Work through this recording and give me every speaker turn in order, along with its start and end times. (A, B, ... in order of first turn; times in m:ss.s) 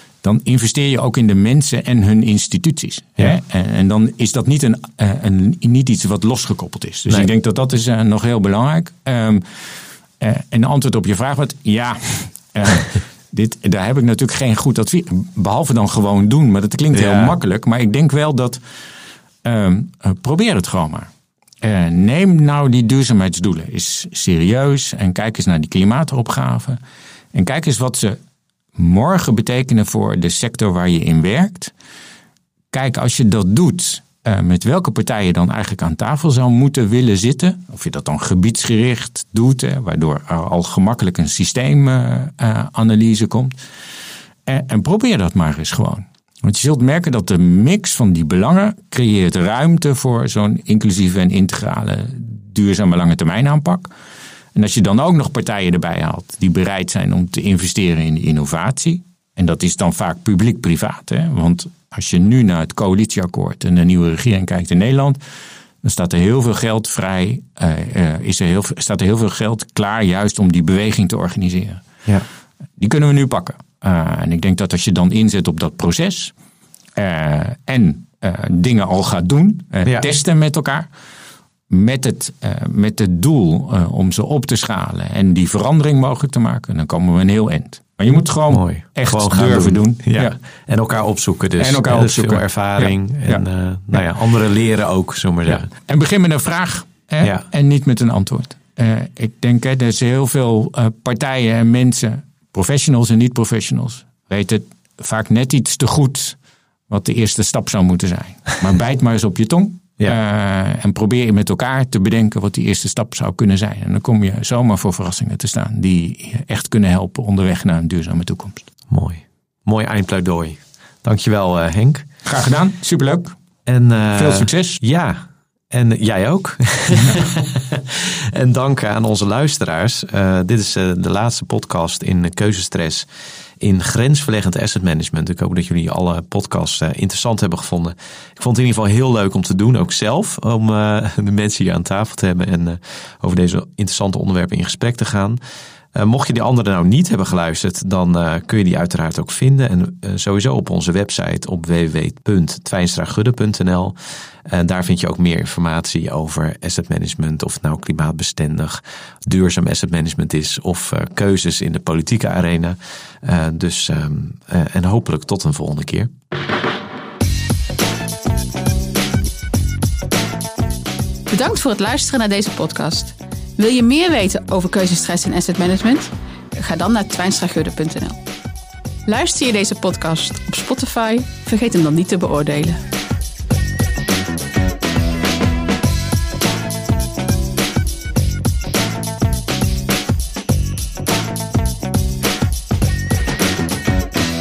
0:00.2-0:09.4 A
0:10.2-0:18.6 A
0:16.9-0:17.4 B
0:19.4-0:21.1 A
0:21.6-0:26.8 A
0:27.3-0:28.2 A
0:28.8-0:31.7 A
0:32.7-0:43.6 A
0:44.5-0:53.9 A
0:54.6-1:05.2 A
1:05.8-1:11.9 A
1:12.8-1:16.3 A
1:17.0-1:20.9 A
1:21.7-1:30.4 A
1:28.5-1:35.7 B
1:31.6-1:33.4 A
1:35.5-1:46.4 A
1:46.9-1:58.7 A
1:58.9-2:02.1 B
2:02.2-2:03.4 A
2:03.7-2:13.1 B
2:04.1-2:04.8 A
2:13.6-2:25.4 B
2:25.9-2:46.1 B
2:51.3-2:58.2 C
2:59.1-3:02.8 C